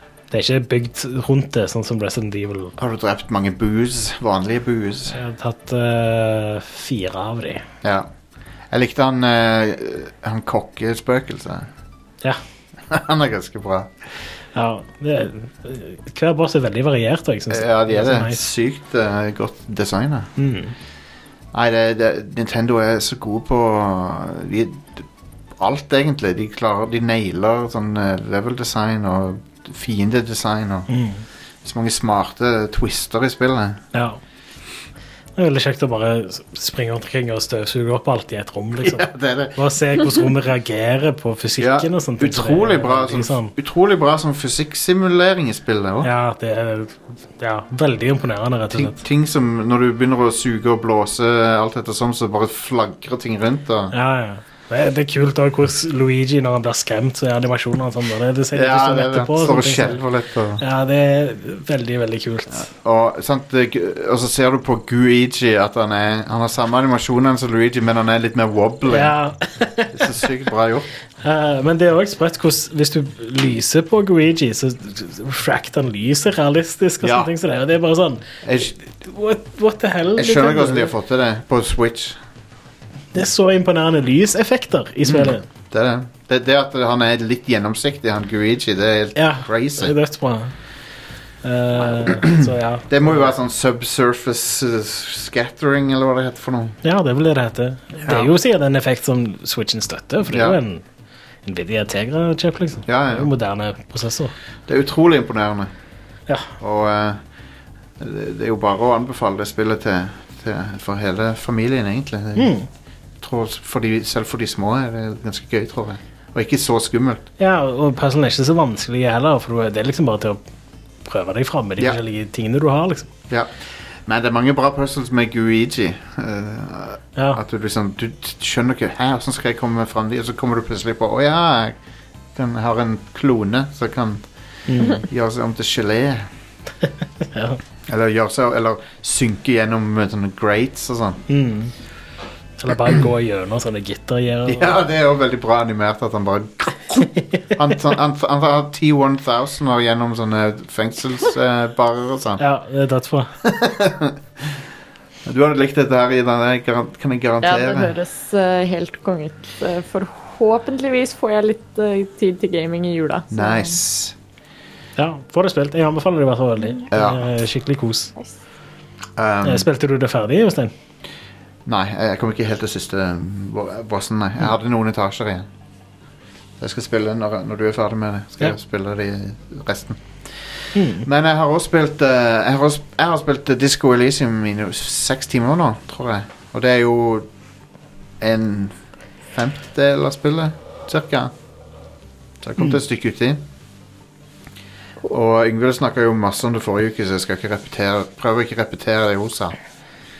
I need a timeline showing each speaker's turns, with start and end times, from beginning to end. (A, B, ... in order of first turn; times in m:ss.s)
0:00.3-0:02.8 A
0:02.8-0:05.2 B
0:05.1-0:07.6 A
0:07.8-0:08.1 B
0:08.7-0:11.7 B
0:12.9-0:13.9 B
0:14.5-0:18.4 A
0:17.5-0:20.3 B
0:20.4-0:20.7 A
0:21.5-0:30.9 B
0:30.9-0:31.2 A
0:31.6-0:33.8 B
0:33.9-0:34.2 A
0:35.4-0:43.5 A
0:38.8-0:39.6 B
0:41.6-0:46.1 B
0:46.0-0:49.0 A
0:48.7-0:53.9 B
0:53.9-1:00.0 A
0:58.5-1:00.6 B
1:00.6-1:02.7 A
1:02.5-1:09.1 B
1:08.8-1:10.2 A
1:09.9-1:10.9 B
1:11.2-1:18.2 A
1:17.0-1:17.3 B
1:18.4-1:18.8 B
1:18.8-1:20.9 A
1:20.2-1:22.2 B
1:23.1-1:25.4 A
1:25.0-1:29.9 B
1:29.2-1:30.5 A
1:31.4-1:33.3 A
1:31.8-1:36.8 B
1:36.8-1:40.8 A
1:38.0-1:38.3 B
1:40.3-1:40.6 B
1:41.4-1:44.3 A
1:42.8-1:43.3 B
1:44.7-1:45.7 B
1:46.6-1:47.2 B
1:48.0-1:52.5 B
1:52.4-1:52.7 A
1:53.2-1:57.3 B
1:57.4-2:00.4 A
2:01.0-2:03.1 A
2:04.0-2:11.8 B
2:07.2-2:07.4 A
2:12.3-2:14.3 B
2:14.7-2:15.0 A
2:14.9-2:16.3 B
2:17.3-2:17.6 A
2:17.9-2:21.2 B
2:21.3-2:21.7 A
2:22.6-2:24.8 A
2:24.4-2:32.4 B
2:32.4-2:33.3 A
2:33.4-2:34.5 B
2:35.2-2:37.9 B
2:37.4-2:43.8 C
2:43.3-2:44.2 B
2:45.0-2:48.1 A
2:46.9-2:47.2 B
2:49.2-2:49.7 B
2:49.4-2:50.7 A
2:51.6-2:55.5 B
2:56.6-3:07.3 B
3:00.7-3:01.0 A
3:08.2-3:08.8 B
3:09.3-3:11.3 B
3:12.4-3:13.4 B
3:15.1-3:19.6 B